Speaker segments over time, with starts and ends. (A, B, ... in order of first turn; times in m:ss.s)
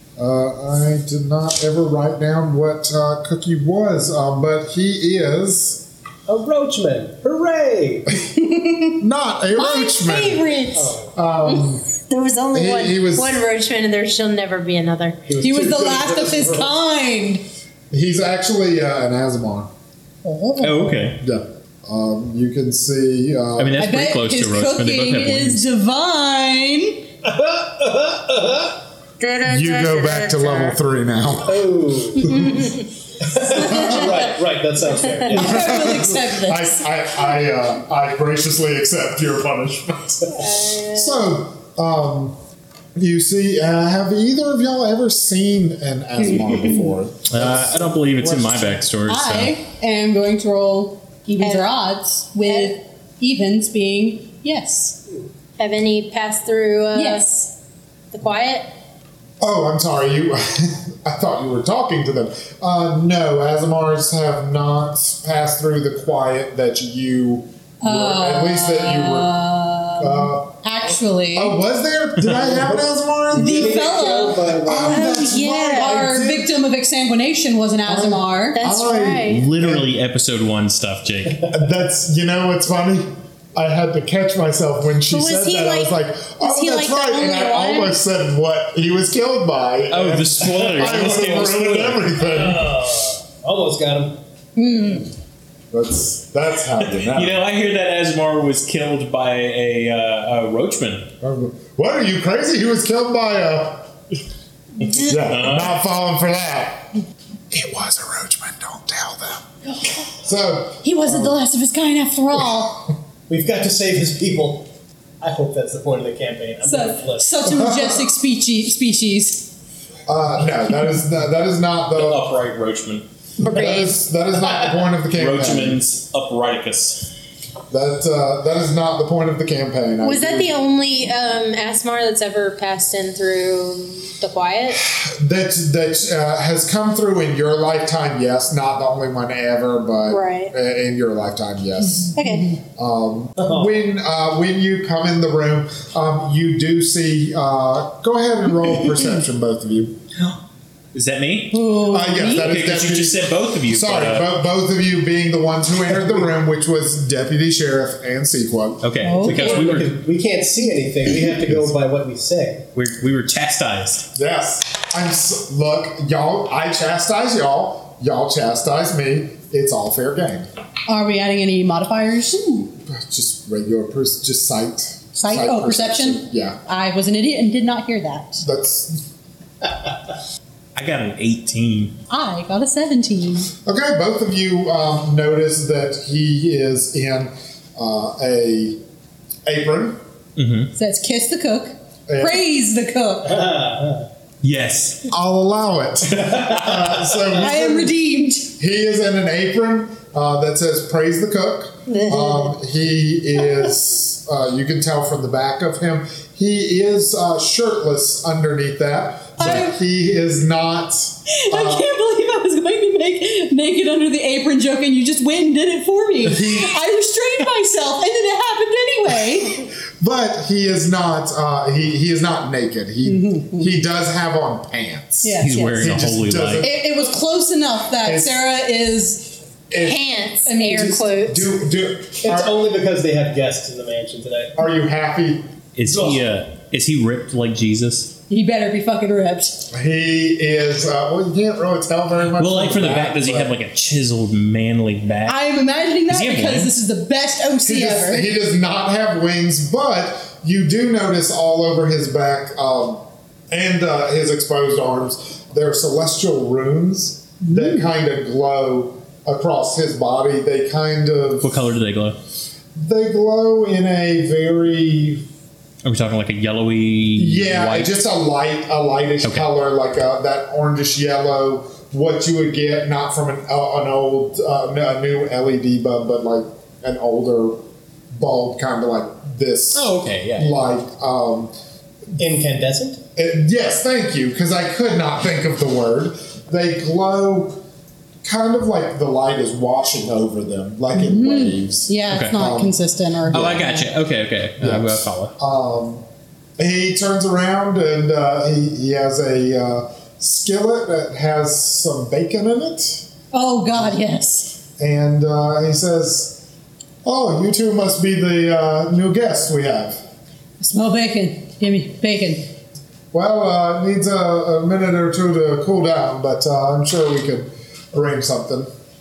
0:00.2-0:05.8 A
0:06.3-0:08.2 B
0:08.4-0:08.9 C
0:09.0-0:10.6 A
0:09.5-0:15.2 D
0:10.7-0:11.1 B
0:11.1-0:11.8 A
0:12.5-0:13.4 A
0:15.2-0:16.7 B
0:15.4-0:17.4 C
0:17.9-0:19.7 A
0:20.2-0:21.1 C
0:20.6-0:21.2 E
0:21.2-0:23.8 A
0:23.6-0:25.6 E
0:23.8-0:27.0 C
0:27.2-0:28.8 B
0:29.2-0:30.8 D
0:29.4-0:31.7 A
0:31.4-0:32.6 B
0:32.3-0:32.7 A
0:33.2-0:35.8 B
0:33.5-0:34.2 A
0:35.3-0:36.8 C
0:35.3-0:42.4 A
0:40.3-0:41.2 D
0:43.0-0:48.8 A
0:47.3-0:49.5 E
0:49.0-0:55.0 C
0:51.4-0:51.7 D
0:52.4-0:52.7 D
0:55.6-0:57.5 D
0:56.9-0:57.5 C
0:58.1-0:58.7 D
0:59.4-1:09.3 A
1:07.8-1:11.6 C
1:10.0-1:13.8 A
1:12.3-1:15.1 B
1:13.3-1:14.5 C
1:14.6-1:16.5 A
1:14.8-1:15.9 D
1:15.4-1:18.6 C
1:17.8-1:19.9 A
1:18.6-1:19.4 D
1:19.2-1:21.5 E
1:21.5-1:32.7 A
1:25.1-1:27.9 D
1:29.9-1:32.1 E
1:32.2-1:34.2 B
1:34.6-1:35.1 C
1:35.7-1:37.4 A
1:37.0-1:41.1 E
1:41.2-1:43.9 A
1:44.8-1:49.5 A
1:45.1-1:45.7 E
1:50.1-1:51.4 A
1:50.8-1:52.8 C
1:53.3-1:54.7 B
1:55.2-1:57.4 B
1:56.6-1:59.5 C
1:57.4-1:58.1 A
2:00.1-2:02.3 A
2:01.9-2:03.0 E
2:03.4-2:03.9 D
2:03.4-2:05.8 A
2:05.1-2:07.1 E
2:07.7-2:10.5 A
2:10.0-2:14.8 D
2:14.7-2:30.0 A
2:20.1-2:20.5 D
2:22.1-2:22.5 D
2:22.2-2:22.5 C
2:23.4-2:23.7 B
2:30.9-2:31.6 E
2:31.5-2:32.5 C
2:31.8-2:38.9 A
2:32.2-2:34.3 E
2:38.8-2:40.0 E
2:39.0-2:39.6 C
2:39.2-2:42.6 B
2:42.7-2:44.1 E
2:44.1-2:50.5 A
2:50.9-2:52.7 C
2:52.9-2:56.6 A
2:55.1-2:58.4 C
2:58.4-2:59.0 A
3:00.8-3:01.9 E
3:02.1-3:03.5 C
3:03.6-3:08.8 A
3:09.4-3:10.0 A
3:10.4-3:10.7 E
3:10.7-3:13.5 C
3:12.1-3:12.4 A
3:13.2-3:14.0 B
3:14.4-3:15.0 E
3:15.1-3:17.9 A
3:16.2-3:16.5 B
3:17.4-3:18.5 C
3:18.6-3:31.9 A
3:21.9-3:22.5 D
3:29.4-3:29.8 C
3:31.3-3:39.7 C
3:36.3-3:36.8 A
3:39.6-3:46.8 A
3:43.0-3:43.7 C
3:45.2-3:45.9 C
3:45.4-3:46.6 E
3:46.6-3:49.4 C
3:48.0-3:48.4 A
3:49.7-3:50.2 A
3:49.7-3:51.4 D
3:50.4-3:51.2 C
3:51.2-3:52.6 A
3:52.2-3:54.6 B
3:54.6-3:55.5 A
3:55.8-3:58.1 E
3:55.8-3:56.2 B
3:58.3-3:59.7 C
3:59.7-4:03.5 A
4:02.4-4:05.4 E
4:05.3-4:08.3 C
4:06.1-4:06.7 E
4:07.6-4:21.6 A
4:17.4-4:17.8 C
4:21.4-4:22.2 E
4:22.8-4:25.2 A
4:25.8-4:27.9 E
4:27.2-4:41.5 A
4:39.7-4:40.6 E
4:42.2-4:43.0 B
4:43.2-4:47.6 A
4:48.2-4:53.6 A
4:50.9-4:53.9 C
4:52.1-4:52.4 E
4:53.3-4:55.3 E
4:54.6-4:56.0 A
4:56.6-5:03.1 A
5:03.3-5:04.6 C
5:04.8-5:06.4 A
5:07.0-5:10.0 A
5:10.6-5:12.5 C
5:13.1-5:18.7 A